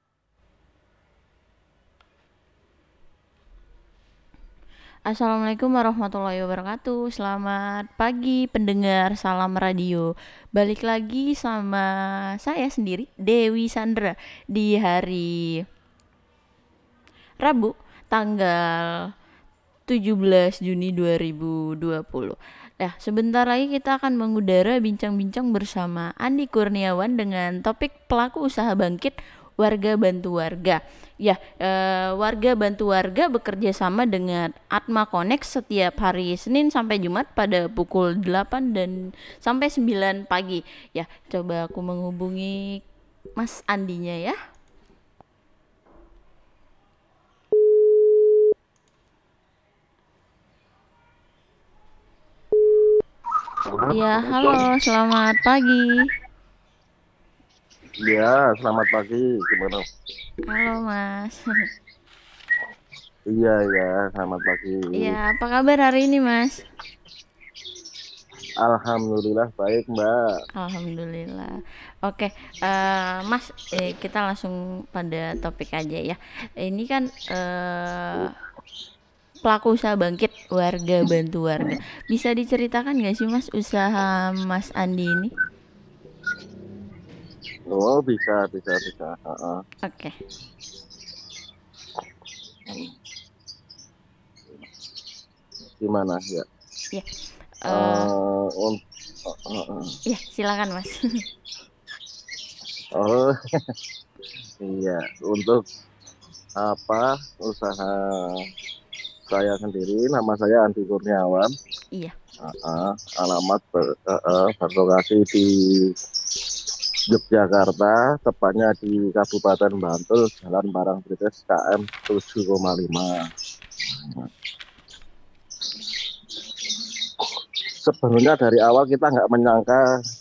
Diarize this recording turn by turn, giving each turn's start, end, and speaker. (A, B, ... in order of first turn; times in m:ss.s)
0:05.1-0:11.9 A
0:12.4-0:15.3 A
0:17.4-0:18.8 A
0:19.9-0:42.8 A
0:43.4-0:44.4 A
0:53.7-0:54.6 B
0:53.9-0:55.8 A
0:58.0-0:59.8 B
1:00.5-1:01.4 A
1:03.3-1:05.2 B
1:05.0-1:06.6 A
1:08.6-1:10.2 B
1:10.6-1:18.3 A
1:19.4-1:25.3 A
1:27.7-1:29.6 B
1:29.8-1:30.1 A
1:35.8-1:36.5 B
1:37.6-1:38.1 A
1:37.7-1:40.0 B
1:40.1-1:41.0 A
1:42.9-1:43.7 B
1:44.6-1:45.6 B
1:46.6-1:48.5 B
1:49.3-1:51.5 B
1:52.4-1:55.9 B
1:57.1-2:03.2 B
2:04.0-2:04.3 B
2:07.8-2:09.8 B